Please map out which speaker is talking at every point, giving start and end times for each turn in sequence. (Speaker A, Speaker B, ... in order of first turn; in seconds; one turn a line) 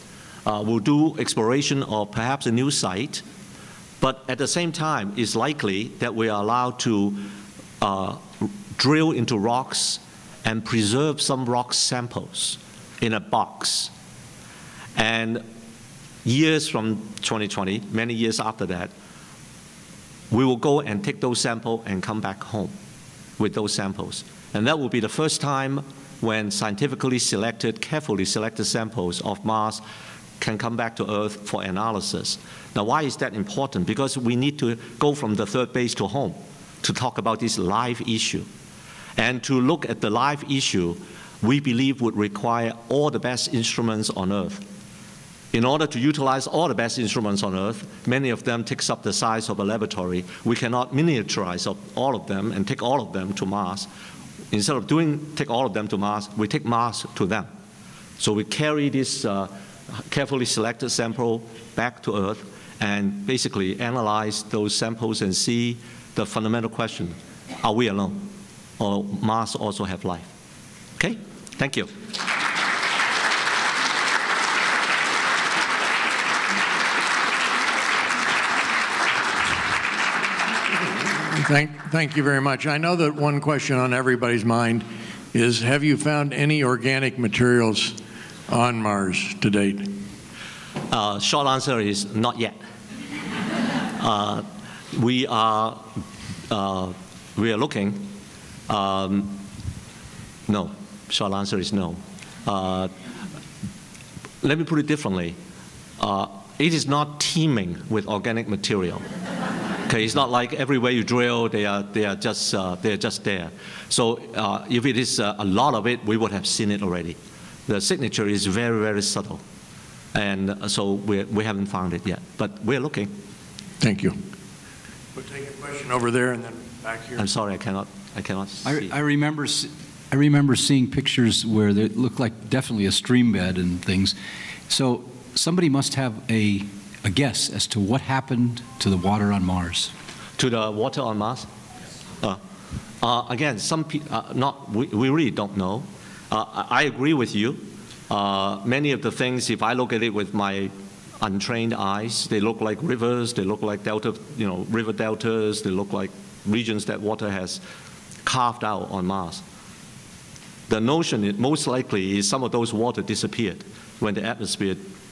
Speaker A: 0.5-3.2
Speaker A: 4.0-13.9
Speaker A: 15.0-15.4
Speaker A: 16.2-18.9
Speaker A: 20.3-22.8
Speaker A: 23.4-29.8
Speaker A: 30.4-38.5
Speaker A: 39.2-44.6
Speaker A: 45.5-53.9
Speaker A: 54.5-57.5
Speaker A: 58.2-70.3
Speaker A: 71.0-71.9
Speaker B: 81.3-88.0
Speaker B: 88.5-90.0
Speaker A: 90.9-92.6
Speaker A: 94.0-98.1
Speaker A: 98.7-99.4
Speaker A: 100.5-102.9
Speaker A: 104.4-105.4
Speaker A: 106.0-109.0
Speaker A: 109.9-119.4
Speaker A: 120.1-123.1
Speaker B: 123.8-124.2
Speaker B: 125.2-127.2
Speaker A: 127.2-128.9
Speaker C: 128.6-134.2
Speaker C: 134.7-139.9
Speaker A: 140.4-141.5
Speaker A: 143.0-157.6
Speaker A: 158.2-159.4
Speaker A: 160.7-164.8